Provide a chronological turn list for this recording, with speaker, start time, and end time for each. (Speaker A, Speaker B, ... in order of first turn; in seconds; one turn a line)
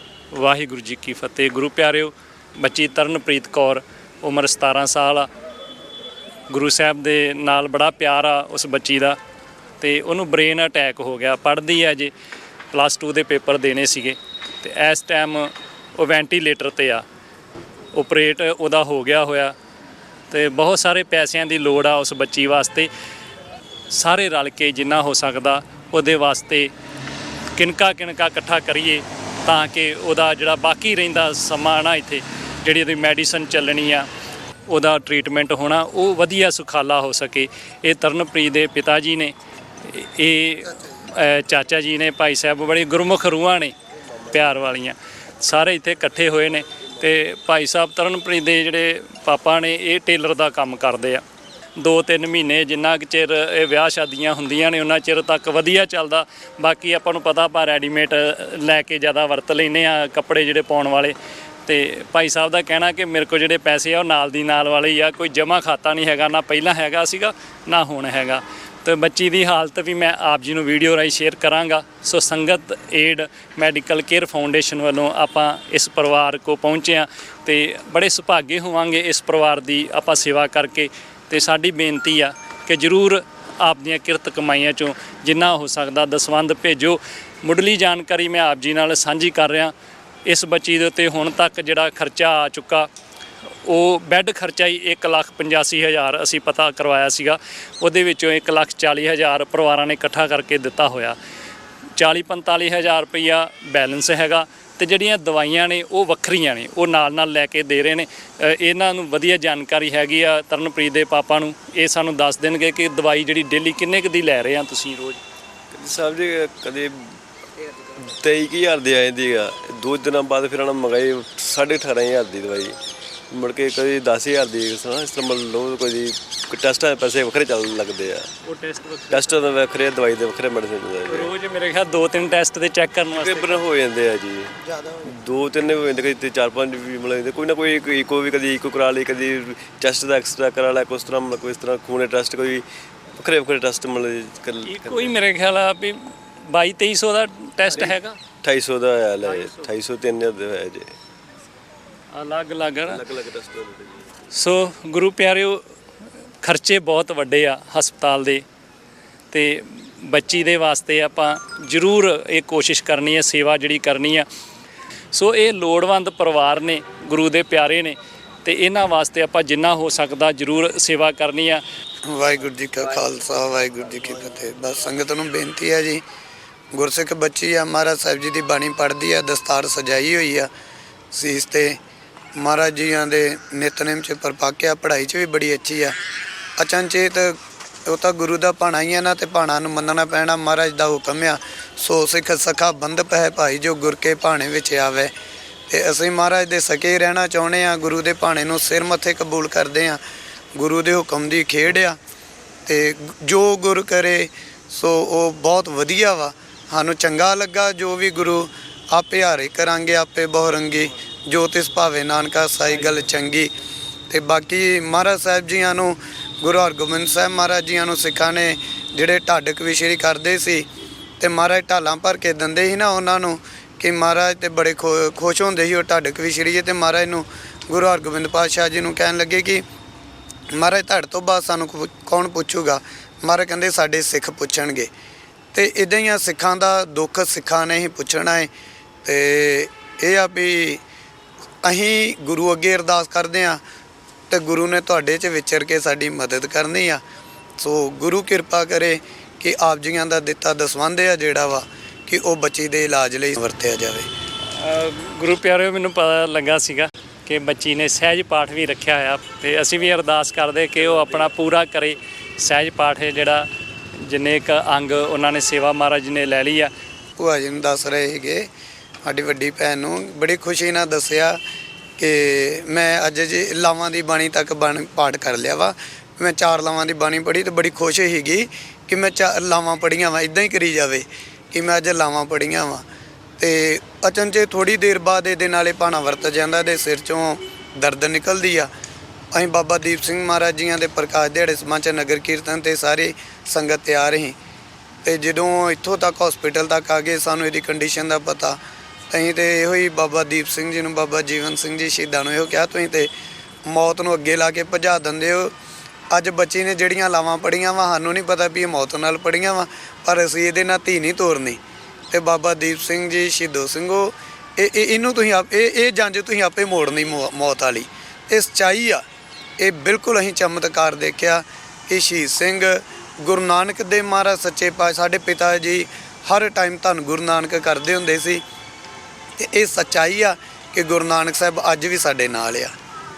Speaker A: 0.3-5.3
Speaker A: 6.5-9.2
Speaker A: 9.8-12.1
Speaker A: 12.7-17.0
Speaker A: 17.9-19.5
Speaker A: 20.3-22.9
Speaker A: 23.9-26.7
Speaker A: 27.6-34.1
Speaker A: 34.7-43.8
Speaker A: 44.3-51.2
Speaker A: 51.8-89.7
Speaker A: 90.3-92.9
Speaker A: 93.7-101.2
Speaker A: 102.0-115.2
Speaker B: 115.7-117.2
Speaker B: 118.0-122.8
Speaker B: 123.3-128.3
Speaker A: 128.4-129.3
Speaker B: 129.1-131.3
Speaker A: 131.1-133.6
Speaker B: 133.1-134.5
Speaker C: 134.7-135.1
Speaker B: 135.1-142.7
Speaker B: 143.2-145.1
Speaker A: 144.7-148.2
Speaker B: 148.4-150.9
Speaker A: 149.3-149.6
Speaker A: 152.1-153.0
Speaker B: 152.9-154.0
Speaker A: 154.3-155.6
Speaker A: 156.4-158.4
Speaker A: 159.3-164.3
Speaker A: 165.1-171.6
Speaker C: 172.1-176.0
Speaker C: 176.7-180.5
Speaker C: 181.1-181.8
Speaker C: 182.4-186.0
Speaker C: 186.6-195.1
Speaker C: 195.7-200.0
Speaker C: 200.6-202.0
Speaker C: 202.7-213.5
Speaker C: 214.1-220.7
Speaker C: 221.2-229.6
Speaker C: 230.5-234.9
Speaker C: 235.5-238.5
Speaker C: 239.1-240.8
Speaker C: 241.6-243.6
Speaker C: 244.3-247.0
Speaker C: 247.6-254.1
Speaker A: 254.5-263.5
Speaker A: 264.0-266.7
Speaker C: 267.2-268.5
Speaker C: 269.1-271.4
Speaker C: 272.0-282.9
Speaker C: 283.4-288.7
Speaker C: 289.3-294.4
Speaker C: 295.1-298.6
Speaker C: 299.1-303.1
Speaker C: 303.7-305.5
Speaker C: 306.1-311.6
Speaker C: 312.1-319.0
Speaker C: 319.6-328.4
Speaker C: 329.4-332.7